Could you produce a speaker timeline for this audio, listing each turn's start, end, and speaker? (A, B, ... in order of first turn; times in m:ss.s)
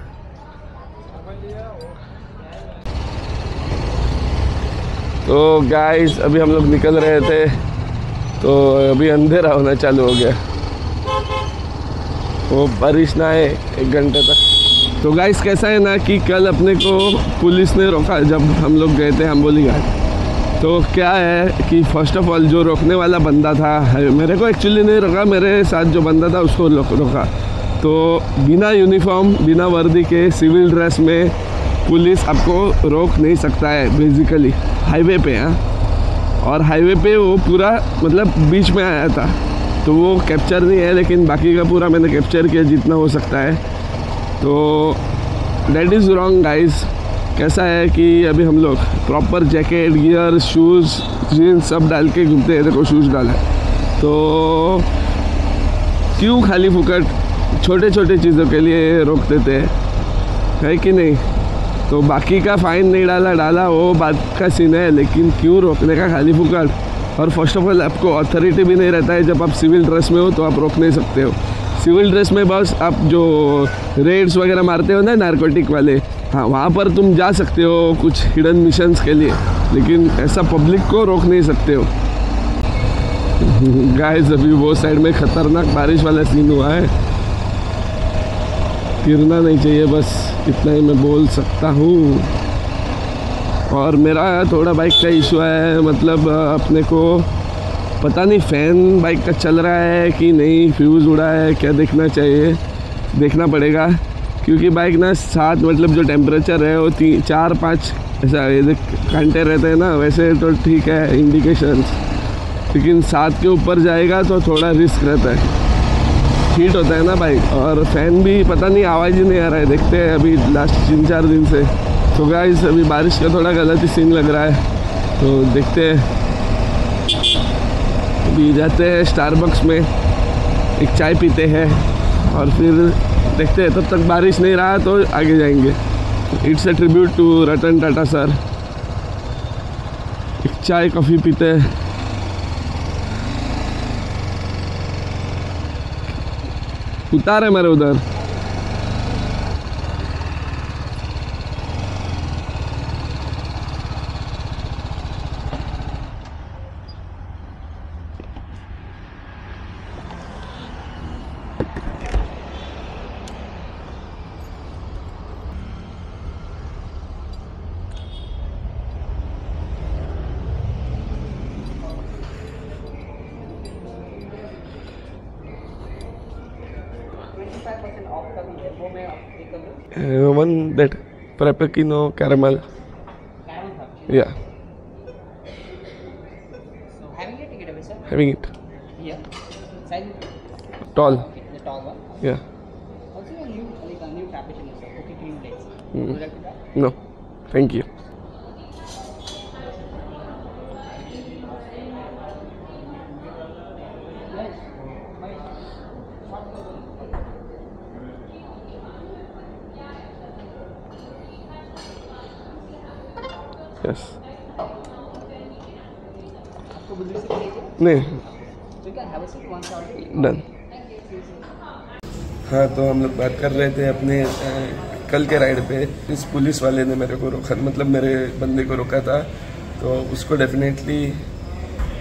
0:05.2-0:07.6 A
0:08.4-0:10.4 A
0:12.5-0:14.4 A
0:15.0-0:19.9 A
0:20.6-0:35.6 A
0:36.4-0:43.6 A
0:44.4-0:45.0 A
0:45.7-0:53.4 A
0:54.0-0:54.9 A
0:56.1-0:59.8 A
1:00.6-1:01.2 A
1:01.9-1:21.9 A
1:23.4-1:26.9 A
1:29.0-1:32.3 A
1:33.7-1:37.3 A
1:38.0-1:42.6 A
1:43.1-1:52.0 A
1:52.7-1:55.5 A
1:56.5-2:04.7 A
2:05.2-2:06.1 A
2:08.2-2:09.9 A
2:10.8-2:15.8 A
2:16.3-2:18.4 A
2:20.4-2:21.8 A
2:27.1-2:28.0 A
2:57.3-2:59.8 B
2:59.9-3:02.7 A
3:03.4-3:04.3 B
3:04.1-3:04.4 A
3:07.0-3:08.1 B
3:08.1-3:08.5 A
3:09.0-3:09.3 B
3:09.8-3:10.3 B
3:10.9-3:11.3 A
3:11.0-3:12.2 B
3:13.1-3:16.7 B
3:17.5-3:17.9 A
3:24.3-3:24.7 B
3:33.8-3:34.2 A
3:36.7-3:41.5 B
3:37.8-3:38.2 A
3:40.0-3:40.4 A
3:42.5-3:51.2 A